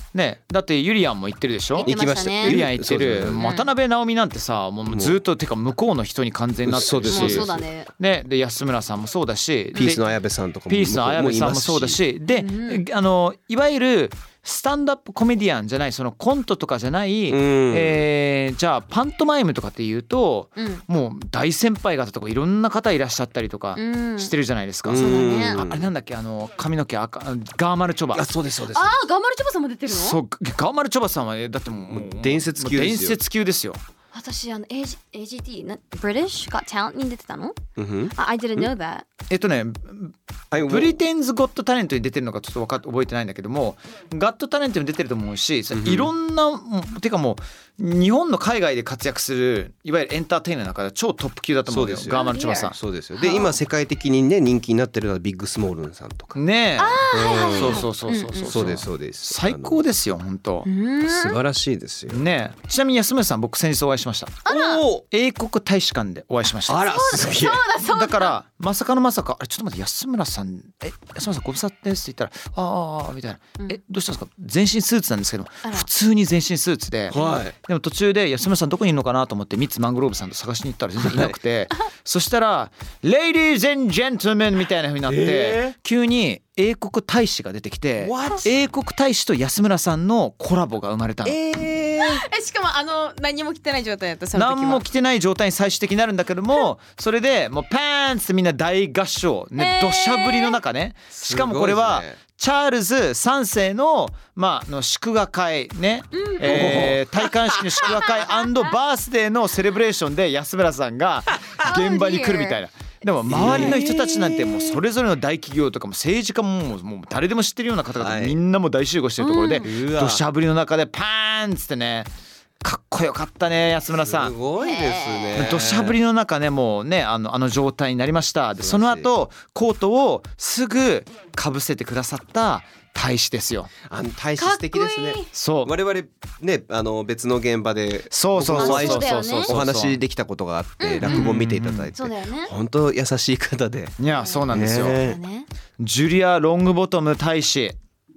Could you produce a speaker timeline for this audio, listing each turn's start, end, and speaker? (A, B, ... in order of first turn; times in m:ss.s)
0:00.1-0:10.0 A
0:01.8-0:03.4 B
0:01.8-0:02.6 C
0:03.2-0:03.7 C
0:04.9-0:05.2 B
0:06.6-0:07.6 B
0:07.1-0:07.9 C
0:09.7-0:12.0 B
0:10.7-0:28.3 A
0:12.3-0:12.8 C
0:17.3-0:18.0 B
0:20.6-0:20.8 C
0:23.8-0:24.3 C
0:24.8-0:25.9 B
0:24.9-0:25.7 C
0:28.1-0:29.0 B
0:28.7-0:30.2 C
0:29.9-0:33.8 A
0:31.9-0:33.2 B
0:34.1-0:37.6 C
0:37.8-0:38.7 B
0:38.1-0:39.0 C
0:39.3-0:52.8 A
0:40.5-0:41.0 B
0:45.7-0:46.1 B
0:51.6-0:56.4 B
0:52.1-0:53.6 C
0:56.3-1:00.7 A
0:56.8-0:58.8 C
0:57.1-0:57.9 B
0:58.5-0:59.8 B
1:00.6-1:01.4 C
1:01.0-1:02.2 B
1:02.1-1:04.4 A
1:04.4-1:04.8 C
1:04.5-1:05.0 B
1:05.0-1:06.9 A
1:06.6-1:07.6 B
1:06.8-1:08.4 C
1:07.8-1:31.4 A
1:17.1-1:17.5 B
1:21.0-1:21.4 B
1:25.1-1:25.7 B
1:28.0-1:28.5 B
1:31.2-1:32.2 B
1:32.0-1:34.8 C
1:34.3-2:02.1 A
1:39.6-1:40.6 C
1:41.1-1:42.2 B
1:46.2-1:46.9 C
1:46.4-1:47.9 B
1:47.8-1:48.5 C
1:51.6-1:52.6 C
1:53.3-1:54.8 B
1:53.4-1:53.8 C
1:58.0-1:58.4 B
1:59.2-1:59.7 C
1:59.6-2:00.2 B
2:02.6-2:04.3 A
2:04.0-2:06.0 B
2:04.6-2:05.5 C
2:05.3-2:13.7 A
2:08.6-2:09.1 B
2:13.9-2:24.0 B
2:14.4-2:15.3 C
2:15.3-2:15.7 A
2:18.1-2:20.0 A
2:18.5-2:19.6 C
2:20.8-2:21.3 C
2:21.0-2:21.9 A
2:21.9-2:22.5 C
2:24.0-2:25.0 A
2:24.1-2:25.5 C
2:24.5-2:25.2 B
2:25.8-2:27.8 A